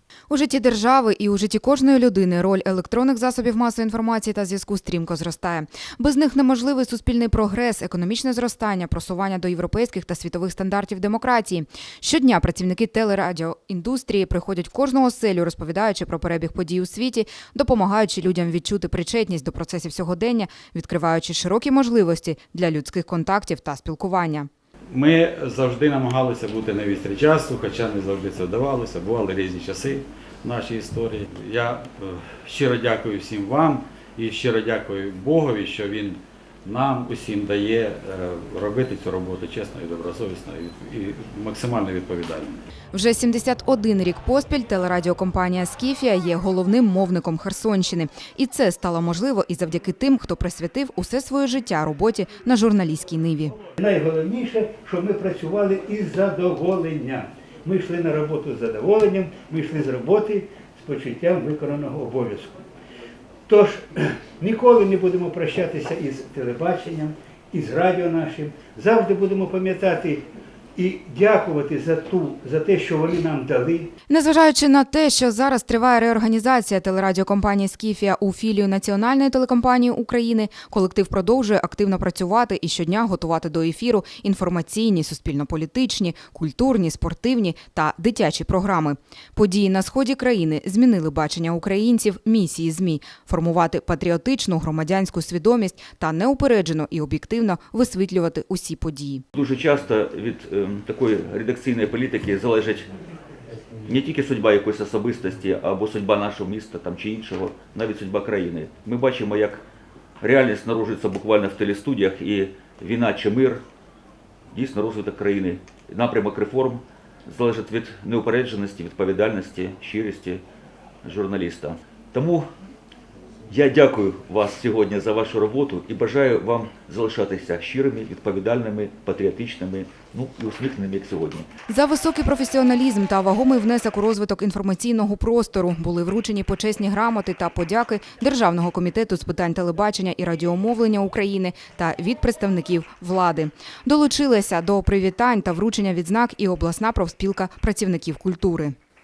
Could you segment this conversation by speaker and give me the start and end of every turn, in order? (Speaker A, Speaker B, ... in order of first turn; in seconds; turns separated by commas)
Speaker A: 0.3-24.5, Speaker B: 24.9-42.6, Speaker A: 42.9-53.5, Speaker C: 53.8-62.6, Speaker C: 63.5-70.2, Speaker C: 70.8-73.9, Speaker A: 74.1-99.2, Speaker D: 99.3-102.9, Speaker D: 103.8-109.6, Speaker D: 110.2-113.6, Speaker D: 114.5-120.4, Speaker D: 121.0-122.5, Speaker D: 123.5-131.5, Speaker A: 131.7-148.7